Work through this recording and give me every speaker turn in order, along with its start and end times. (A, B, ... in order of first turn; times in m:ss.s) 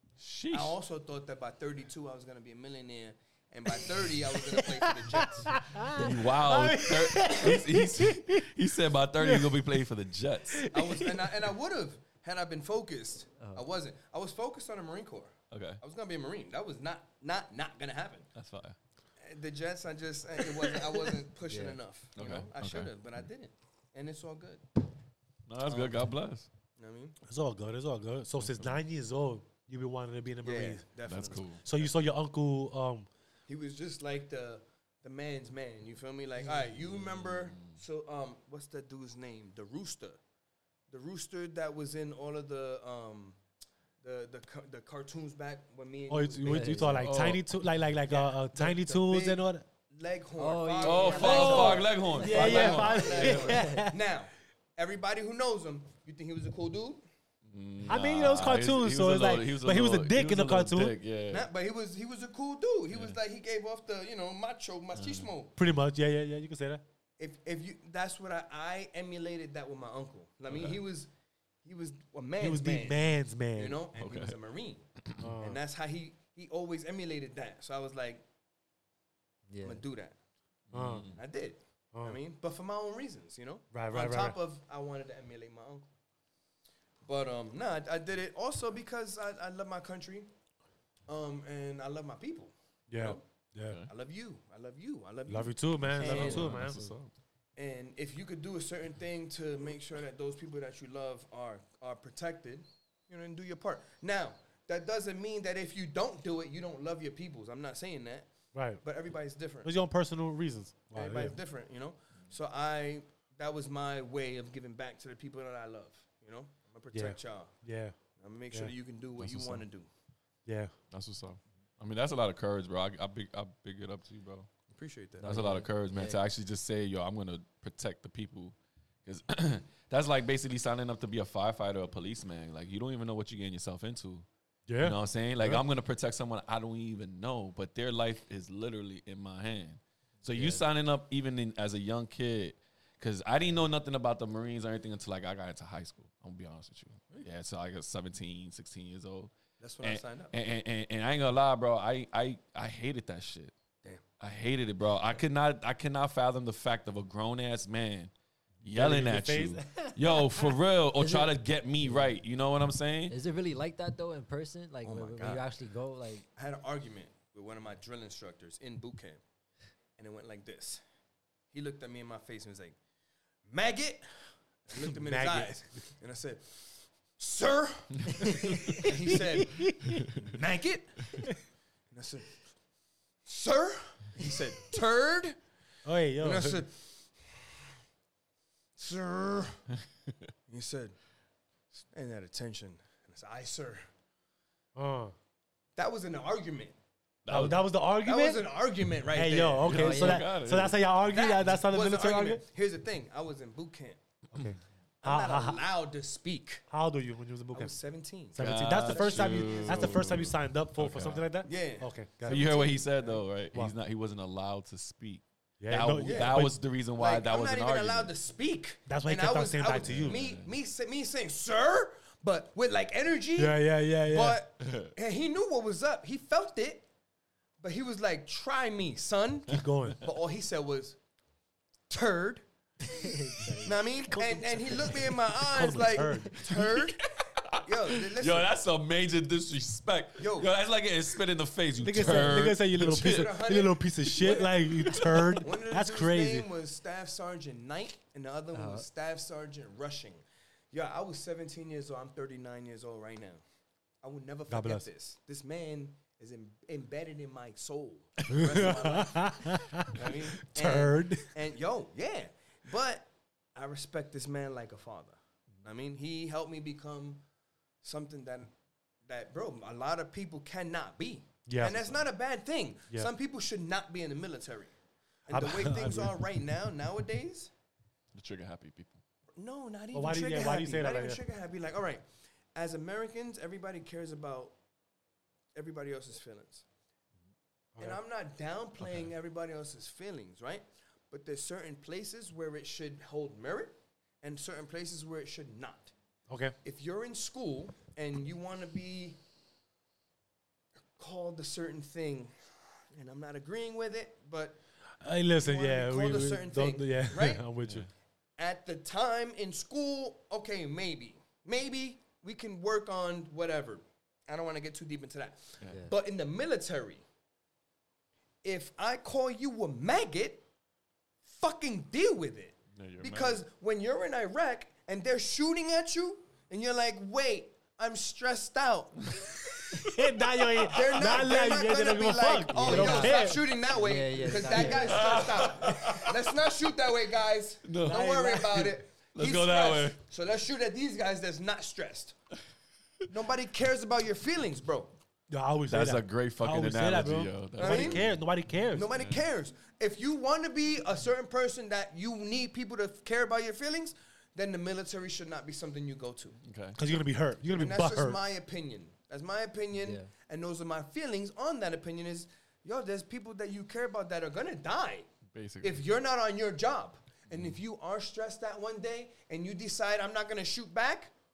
0:00.2-0:00.7 A
0:00.5-0:05.6 B
0:04.4-0:08.5 C
0:05.9-0:10.6 A
0:09.2-0:09.8 C
0:10.5-0:11.3 C
0:10.7-0:18.3 B
0:15.5-0:15.8 A
0:18.3-0:18.8 A
0:19.2-0:24.6 B
0:21.5-0:21.8 D
0:22.2-0:23.0 A
0:25.5-0:26.5 A
0:25.6-0:26.1 B
0:26.8-0:27.2 B
0:27.3-0:30.8 C
0:28.4-0:28.7 A
0:30.4-0:31.9 B
0:31.0-0:31.6 A
0:31.6-0:33.1 C
0:33.5-0:40.2 B
0:36.8-0:37.8 A
0:40.9-0:43.4 B
0:44.0-0:47.1 B
0:46.1-0:49.6 C
0:46.4-0:47.0 D
0:47.0-0:47.4 A
0:48.1-0:57.0 B
0:50.4-0:53.8 D
0:50.8-0:53.6 A
0:51.2-0:54.0 C
0:57.4-1:01.5 A
0:57.8-1:00.9 C
1:01.3-1:05.5 B
1:02.9-1:03.2 A
1:04.9-1:05.3 A
1:05.6-1:06.8 C
1:07.2-1:11.1 B
1:10.5-1:10.8 A
1:11.6-1:14.9 B
1:12.4-1:13.8 C
1:13.9-1:14.4 A
1:15.0-1:15.3 A
1:15.2-1:15.6 C
1:15.4-1:18.2 B
1:19.5-1:19.8 D
1:19.6-1:20.2 B
1:20.7-1:21.2 A
1:20.7-1:21.0 C
1:21.1-1:25.9 B
1:23.7-1:24.4 C
1:27.0-1:30.3 B
1:31.1-1:33.2 B
1:32.9-1:33.8 C
1:33.9-1:36.6 B
1:35.3-1:36.9 C
1:35.9-1:37.1 A
1:37.6-1:49.7 B
1:48.5-1:48.8 C
1:49.6-1:51.4 C
1:50.9-1:57.5 B
1:56.9-1:57.9 C
1:58.2-1:59.9 B
1:59.2-1:59.6 A
2:00.4-2:00.7 C
2:00.9-2:04.5 A
2:04.7-2:05.3 B
2:05.2-2:06.2 D
2:05.2-2:14.2 A
2:14.7-2:15.6 C
2:14.8-2:29.3 A
2:20.3-2:20.6 D
2:29.6-2:30.4 B
2:29.8-2:33.5 A
2:34.2-2:38.1 A
2:38.6-2:43.1 A
2:38.7-2:40.2 C
2:41.0-2:42.1 D
2:43.1-2:46.2 D
2:44.8-2:45.4 B
2:46.4-2:49.2 B
2:50.0-2:50.8 B
2:51.5-2:52.8 B
2:53.4-3:01.4 B
2:54.8-2:55.6 C
2:58.3-2:58.7 A
2:59.5-3:00.1 C
3:01.9-3:02.4 B
3:03.2-3:05.4 B
3:05.8-3:06.6 C
3:06.2-3:07.5 B
3:08.8-3:09.6 B
3:10.5-3:11.0 B
3:11.7-3:13.9 B
3:14.8-3:15.1 C
3:15.8-3:16.7 B
3:17.2-3:17.6 A
3:17.3-3:18.4 C
3:18.0-3:20.1 B
3:19.1-3:22.4 C
3:19.6-3:20.8 A
3:19.7-3:20.2 D
3:21.1-3:24.0 B
3:24.3-3:25.6 C
3:25.0-3:26.6 B
3:26.7-3:27.7 C
3:27.5-3:29.9 B
3:28.3-3:32.5 C
3:28.4-3:31.2 A
3:31.4-3:33.2 B
3:32.3-3:38.1 A
3:35.6-3:36.6 C
3:36.0-3:36.4 B
3:37.0-3:46.9 B
3:38.9-3:40.2 C
3:39.8-3:40.5 A
3:43.4-3:44.4 C
3:44.6-3:44.9 A
3:47.6-3:51.0 B
3:49.5-3:50.0 C
3:51.9-3:58.6 B
3:52.9-3:53.8 D
3:54.1-3:56.4 C
3:56.4-4:03.4 A
4:00.2-4:00.5 B
4:01.8-4:06.5 C
4:02.0-4:04.5 B
4:04.2-4:05.4 A
4:05.4-4:13.4 B
4:08.5-4:08.8 D
4:14.0-4:27.2 B
4:14.5-4:14.8 C
4:18.3-4:21.3 C
4:27.8-4:28.5 B
4:29.0-4:37.5 B
4:31.5-4:31.9 C
4:35.3-4:36.1 C
4:38.1-4:39.0 A
4:39.4-4:44.6 B
4:39.9-4:41.2 C
4:45.5-4:46.6 B
4:47.7-4:48.0 C
4:47.8-4:55.9 B
4:56.3-4:56.6 C
4:56.6-4:59.2 B
5:01.0-5:04.6 B
5:05.0-5:07.9 C
5:05.4-5:07.4 B
5:07.6-5:07.9 A
5:08.4-5:17.0 B
5:18.4-5:20.4 B
5:21.2-5:29.6 B
5:22.7-5:23.4 A
5:29.2-5:29.9 A
5:29.8-5:33.4 C
5:30.7-5:42.2 B
5:32.5-5:33.1 A
5:32.7-5:35.2 D
5:34.5-5:34.8 C
5:34.6-5:36.3 A
5:37.6-5:40.0 A
5:37.8-5:38.5 C
5:43.1-5:45.0 B
5:45.3-5:48.9 C
5:45.7-5:48.1 A
5:47.6-5:48.0 B
5:48.7-5:56.4 B
5:48.9-5:49.2 A
5:56.4-5:56.8 A
5:56.8-5:58.2 C
5:57.5-6:05.1 B
5:59.7-6:00.1 D
6:05.3-6:05.8 A
6:05.6-6:11.1 B
6:07.3-6:07.6 A